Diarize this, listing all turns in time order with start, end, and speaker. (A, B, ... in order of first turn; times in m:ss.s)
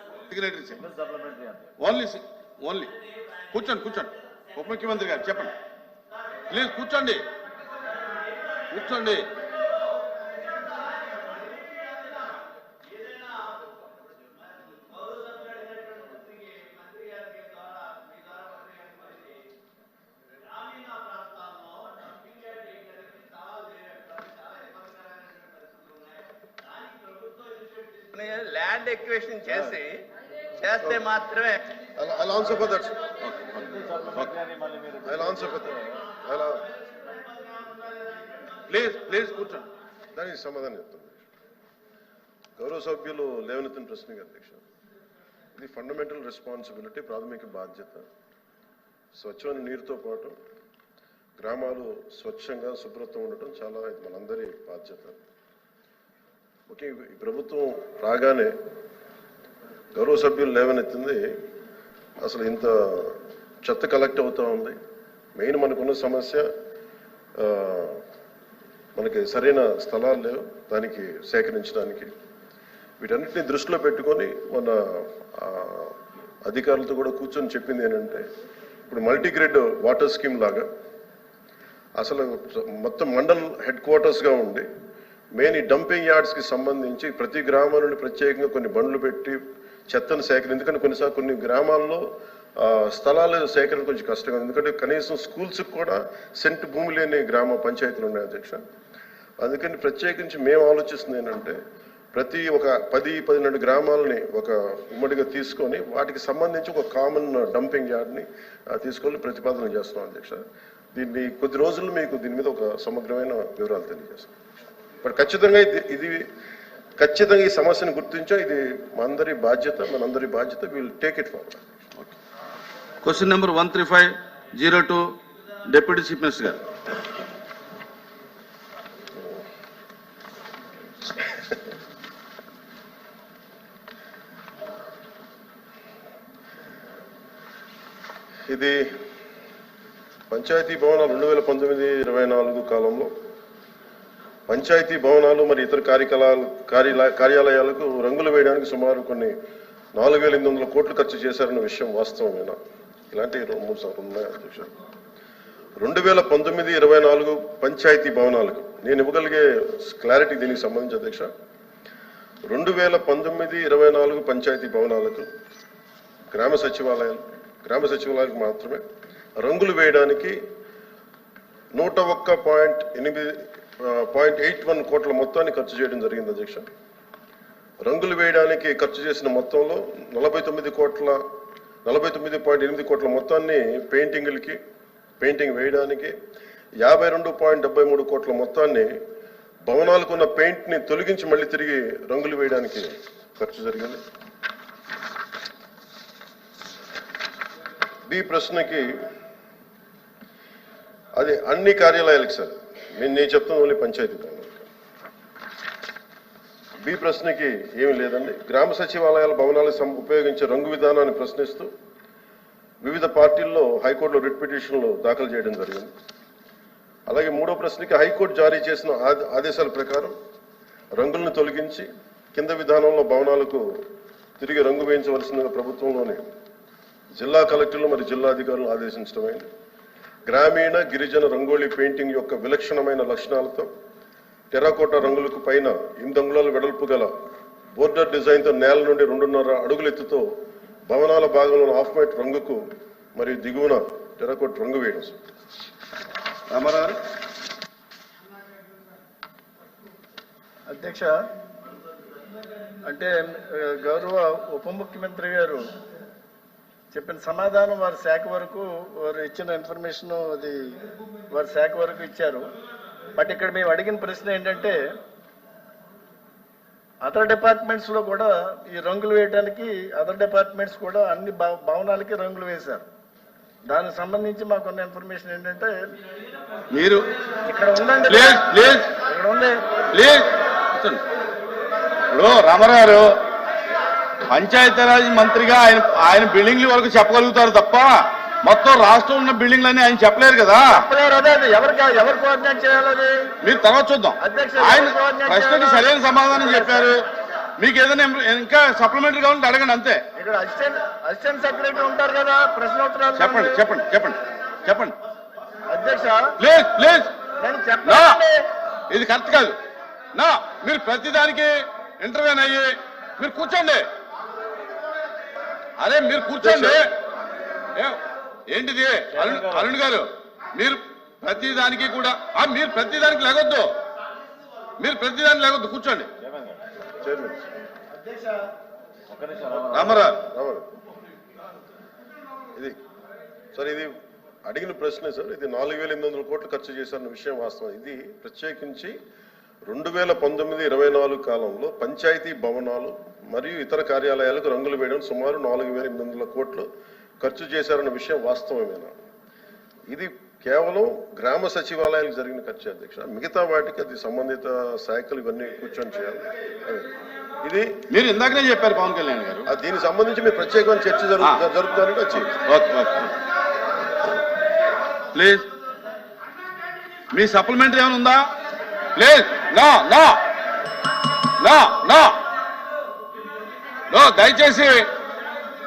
0:00.3-0:00.8 A
0:00.9-0:01.7 B
0:01.8-0:02.9 A
0:03.5-0:05.5 A
0:06.5-0:07.2 A
0:08.7-0:09.3 A
0:28.2-0:30.1 C
0:30.6-0:31.6 C
0:30.7-0:31.1 D
0:32.0-0:33.0 D
0:33.2-0:34.3 A
0:33.8-0:35.1 B
0:35.0-0:36.7 D
0:38.7-0:39.7 A
0:40.1-0:41.2 D
0:42.6-0:44.6 D
0:45.6-0:48.0 D
0:49.2-0:50.4 D
0:51.4-0:55.2 D
0:56.7-0:58.5 D
1:00.0-1:01.3 D
1:02.2-1:04.8 D
1:05.4-1:06.5 D
1:07.4-1:08.0 D
1:09.0-1:12.1 D
1:13.0-1:18.3 D
1:18.9-1:20.7 D
1:22.0-1:24.7 D
1:25.4-1:32.1 D
1:32.6-1:38.6 D
1:39.4-1:41.6 D
1:42.1-1:50.4 D
1:50.9-1:54.3 D
1:55.0-1:56.3 D
1:57.0-2:01.8 D
2:03.0-2:05.2 A
2:05.7-2:06.6 A
2:18.5-2:18.9 D
2:20.3-2:23.1 D
2:24.5-2:29.3 D
2:30.0-2:32.6 D
2:33.1-2:34.7 D
2:35.8-2:41.3 D
2:42.4-2:45.3 D
2:46.3-2:48.8 D
2:49.4-2:50.4 D
2:51.7-2:56.7 D
2:57.8-3:01.2 D
3:01.9-3:04.6 D
3:05.2-3:06.2 D
3:06.8-3:08.9 D
3:09.7-3:14.0 D
3:18.1-3:19.0 D
3:21.2-3:24.7 D
3:26.8-3:31.7 D
3:32.8-3:35.9 D
3:37.1-3:40.2 D
3:41.0-3:43.8 D
3:44.4-3:46.2 D
3:47.2-3:49.5 D
3:50.3-3:53.7 D
3:54.5-3:57.1 D
3:57.8-4:00.3 D
4:00.9-4:05.2 D
4:06.5-4:07.0 A
4:10.7-4:11.2 E
4:12.9-4:15.7 E
4:16.9-4:20.8 E
4:21.3-4:22.5 E
4:23.2-4:24.8 E
4:27.0-4:32.8 E
4:33.7-4:35.7 E
4:36.7-4:37.0 A
4:37.5-4:39.6 E
4:38.1-4:38.9 A
4:39.9-4:41.0 A
4:42.1-4:43.2 A
4:44.3-4:47.9 A
4:48.4-4:50.8 A
4:50.7-4:53.2 E
4:53.4-4:57.0 A
4:54.2-4:56.9 E
4:57.6-5:00.0 A
5:00.2-5:03.6 E
5:03.2-5:05.0 A
5:05.7-5:06.3 E
5:06.4-5:07.1 A
5:07.4-5:08.4 E
5:07.8-5:08.2 A
5:08.9-5:09.6 A
5:10.1-5:13.8 A
5:15.8-5:16.9 A
5:16.4-5:16.8 D
5:17.8-5:23.7 A
5:19.2-5:19.7 B
5:24.8-5:26.1 A
5:26.3-5:26.6 B
5:27.0-5:27.4 D
5:27.9-5:28.4 E
5:29.1-5:29.8 B
5:29.7-5:30.2 A
5:30.0-5:30.7 D
5:33.5-5:33.9 D
5:34.5-5:39.0 D
5:39.7-5:46.7 D
5:47.2-5:48.9 D
5:49.9-5:56.9 D
5:57.4-5:57.8 D
5:57.9-5:59.5 A
5:59.5-6:02.4 D
6:02.4-6:03.1 A
6:05.1-6:05.5 A
6:07.1-6:08.3 A
6:09.0-6:10.2 A
6:11.4-6:12.2 A
6:13.9-6:14.9 A